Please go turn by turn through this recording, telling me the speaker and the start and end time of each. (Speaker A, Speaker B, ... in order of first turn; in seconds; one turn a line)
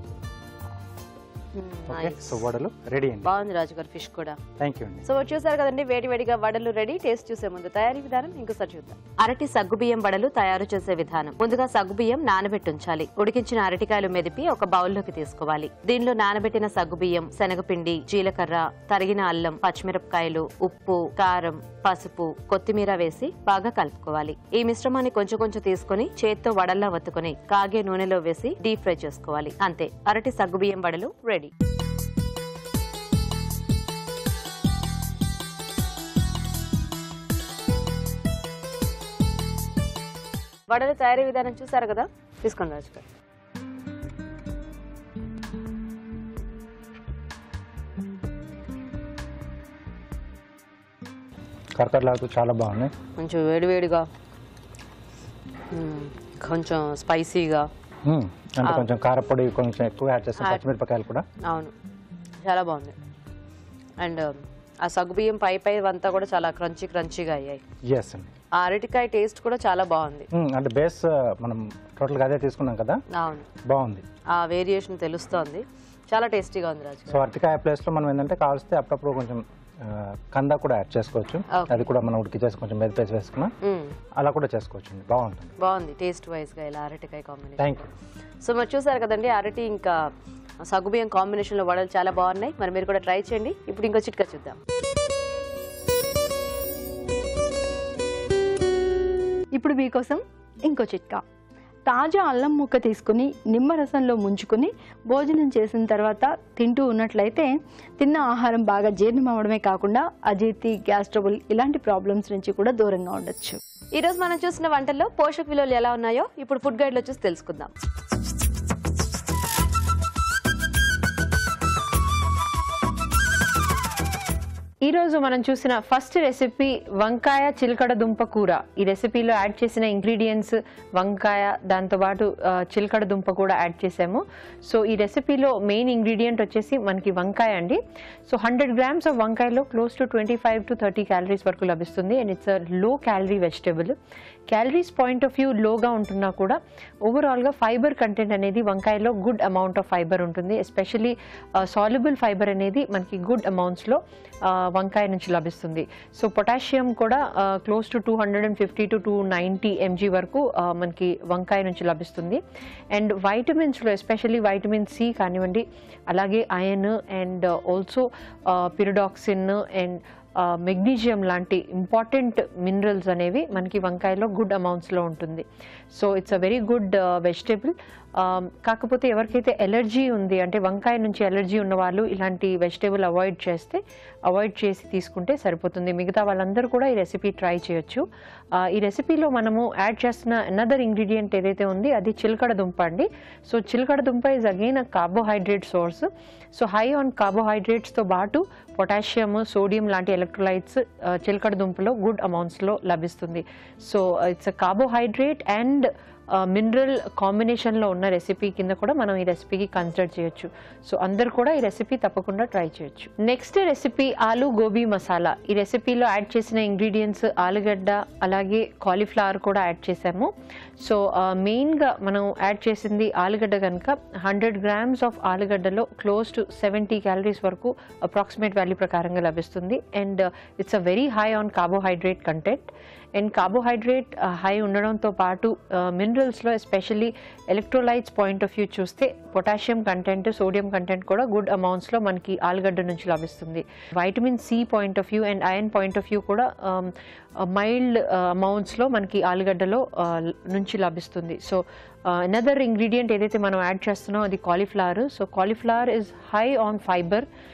Speaker A: 1.5-2.4
Speaker B: 1.9-3.3
Speaker A: 3.2-4.4
Speaker B: 4.6-5.0
Speaker A: 5.0-31.5
Speaker A: 40.7-43.0
Speaker B: 51.8-52.9
Speaker A: 53.2-54.0
Speaker A: 55.7-57.6
Speaker B: 58.0-61.2
Speaker A: 61.4-61.7
Speaker A: 62.4-62.9
Speaker A: 64.0-67.6
Speaker B: 67.9-68.3
Speaker A: 68.5-70.3
Speaker B: 70.3-73.0
Speaker A: 73.1-73.5
Speaker B: 73.7-74.0
Speaker A: 74.3-77.2
Speaker B: 77.1-83.5
Speaker A: 81.5-81.9
Speaker A: 83.6-83.9
Speaker B: 84.2-85.5
Speaker A: 85.6-87.7
Speaker B: 87.6-87.9
Speaker A: 88.4-90.1
Speaker A: 90.7-94.6
Speaker C: 99.5-101.2
Speaker C: 101.9-113.6
Speaker A: 114.0-117.7
Speaker D: 124.8-143.9
Speaker D: 144.5-162.4
Speaker D: 162.9-188.0
Speaker D: 188.6-246.9
Speaker D: 247.4-257.2